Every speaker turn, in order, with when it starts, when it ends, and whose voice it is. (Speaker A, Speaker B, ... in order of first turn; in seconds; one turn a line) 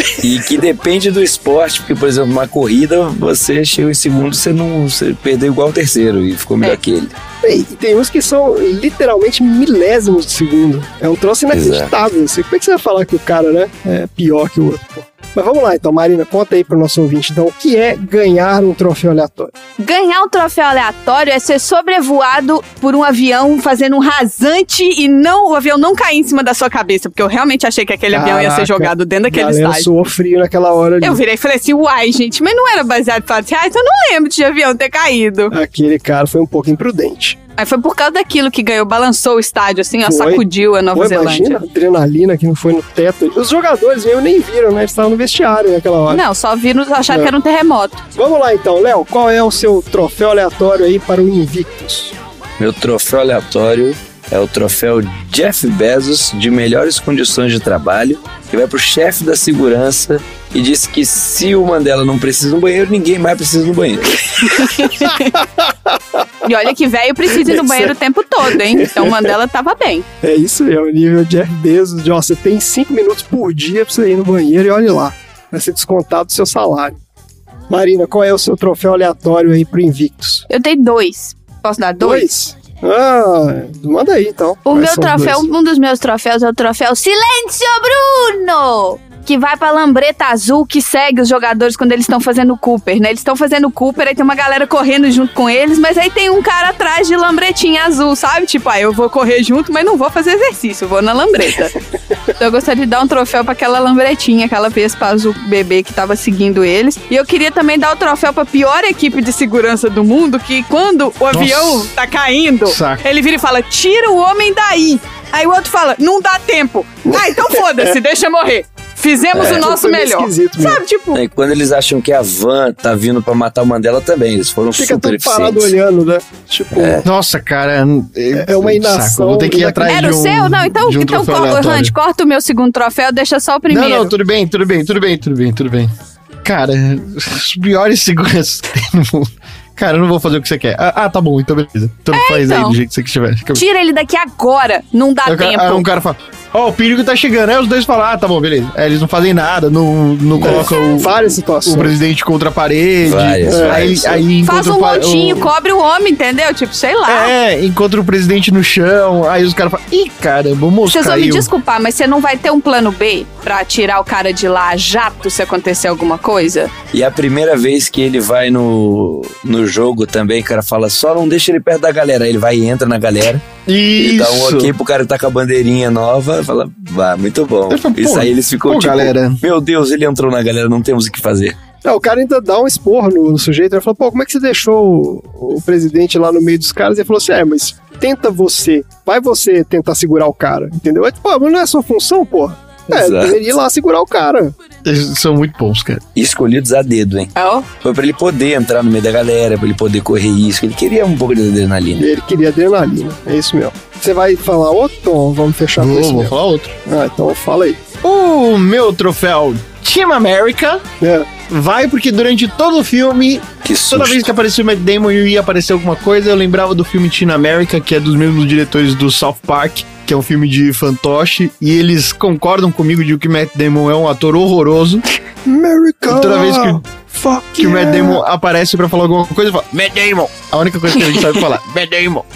Speaker A: 0.2-7.1
Speaker B: 7.4-19.5
Speaker A: 11.5-11.9
Speaker C: 19.8-29.9
Speaker B: 28.1-31.2
Speaker C: 31.0-35.5
Speaker B: 35.5-37.4
Speaker C: 37.6-41.6
Speaker B: 40.0-46.2
Speaker C: 46.1-48.0
Speaker B: 48.1-52.1
Speaker A: 52.6-64.6
Speaker C: 64.6-65.3
Speaker B: 65.9-66.2
Speaker C: 66.4-70.0
Speaker B: 67.3-67.9
Speaker B: 68.5-69.3
Speaker B: 70.2-77.0
Speaker B: 77.7-80.4
Speaker C: 80.5-82.3
Speaker B: 82.0-85.5
Speaker C: 84.7-101.8
Speaker C: 102.3-121.2
Speaker D: 111.3-111.9
Speaker D: 112.7-113.0
Speaker B: 117.1-117.9
Speaker A: 119.3-119.6
Speaker B: 119.3-120.8
Speaker A: 121.1-125.7
Speaker B: 124.8-127.0
Speaker A: 126.8-127.0
Speaker D: 127.0-131.9
Speaker B: 128.3-130.0
Speaker C: 129.9-134.1
Speaker D: 133.7-135.9
Speaker D: 136.4-143.6
Speaker C: 142.1-142.8
Speaker C: 143.5-145.8
Speaker D: 145.2-155.5
Speaker B: 150.4-151.9
Speaker A: 153.0-154.2
Speaker B: 153.5-153.9
Speaker C: 154.4-157.3
Speaker D: 157.1-161.5
Speaker C: 160.9-166.7
Speaker A: 166.9-181.6
Speaker D: 173.7-174.7
Speaker D: 177.7-179.4
Speaker B: 181.8-194.5
Speaker A: 192.9-193.4
Speaker D: 194.8-196.0
Speaker A: 196.1-202.1
Speaker C: 197.3-197.7
Speaker B: 201.9-206.3
Speaker D: 205.8-206.8
Speaker B: 206.8-207.8
Speaker D: 208.0-210.8
Speaker B: 211.0-211.3
Speaker D: 211.5-225.0
Speaker A: 213.6-214.3
Speaker B: 225.4-228.2
Speaker D: 226.1-226.8
Speaker D: 227.6-232.2